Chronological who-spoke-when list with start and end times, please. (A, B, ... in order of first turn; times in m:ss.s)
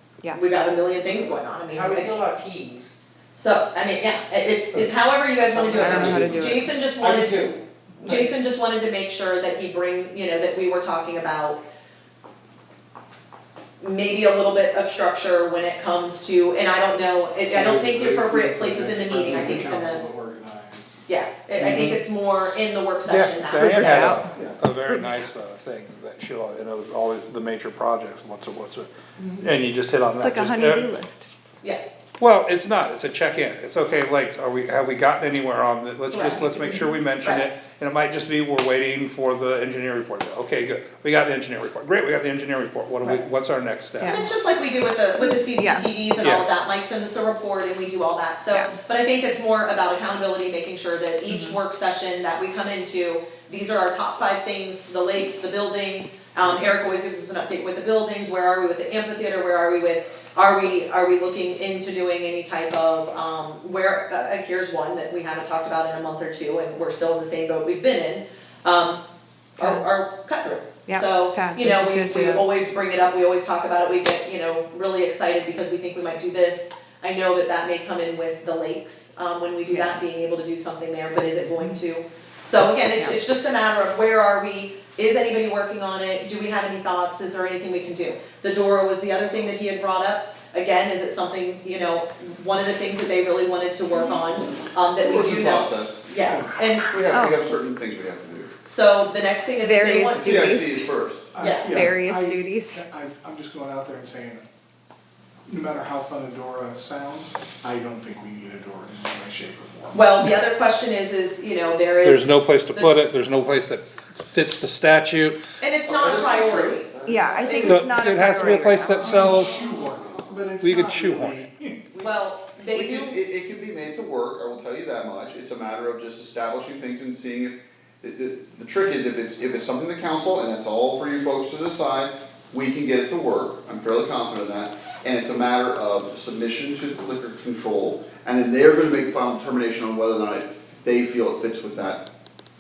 0:00.3-0:02.1 A
0:01.1-0:02.9 B
0:03.4-0:07.5 A
0:05.6-0:06.0 B
0:05.7-0:06.9 C
0:05.9-0:06.4 D
0:06.8-0:08.3 B
0:08.0-0:11.6 A
0:13.8-0:20.0 A
0:17.5-0:21.0 D
0:21.1-0:24.2 A
0:21.6-0:22.0 E
0:23.1-0:30.9 E
0:23.6-0:25.3 C
0:24.4-0:24.6 D
0:30.2-0:31.3 C
0:32.2-0:44.2 E
0:36.1-0:37.4 A
0:44.0-0:44.3 C
0:44.0-1:09.0 A
0:45.2-0:45.9 C
0:46.2-0:46.5 E
0:48.5-0:48.8 C
0:51.3-0:51.6 C
1:09.6-1:10.0 C
1:09.6-1:36.9 A
1:10.9-1:12.5 C
1:19.7-1:20.0 C
1:35.0-1:36.0 F
1:36.3-1:36.5 D
1:36.9-1:38.5 F
1:37.1-1:37.4 C
1:38.7-1:40.6 A
1:39.6-1:40.9 C
1:40.2-1:41.3 F
1:41.3-1:44.5 D
1:41.4-1:41.8 A
1:41.6-1:42.8 C
1:45.5-1:50.0 D
1:49.9-1:52.9 A
1:52.0-1:55.4 E
1:55.6-1:56.9 A
1:55.9-1:58.2 F
1:57.0-1:59.2 C
1:57.4-1:57.8 A
1:57.6-1:59.6 E
1:58.8-2:01.8 D
1:59.2-2:00.5 F
2:00.6-2:01.6 E
2:02.0-2:03.2 A
2:02.7-2:22.0 F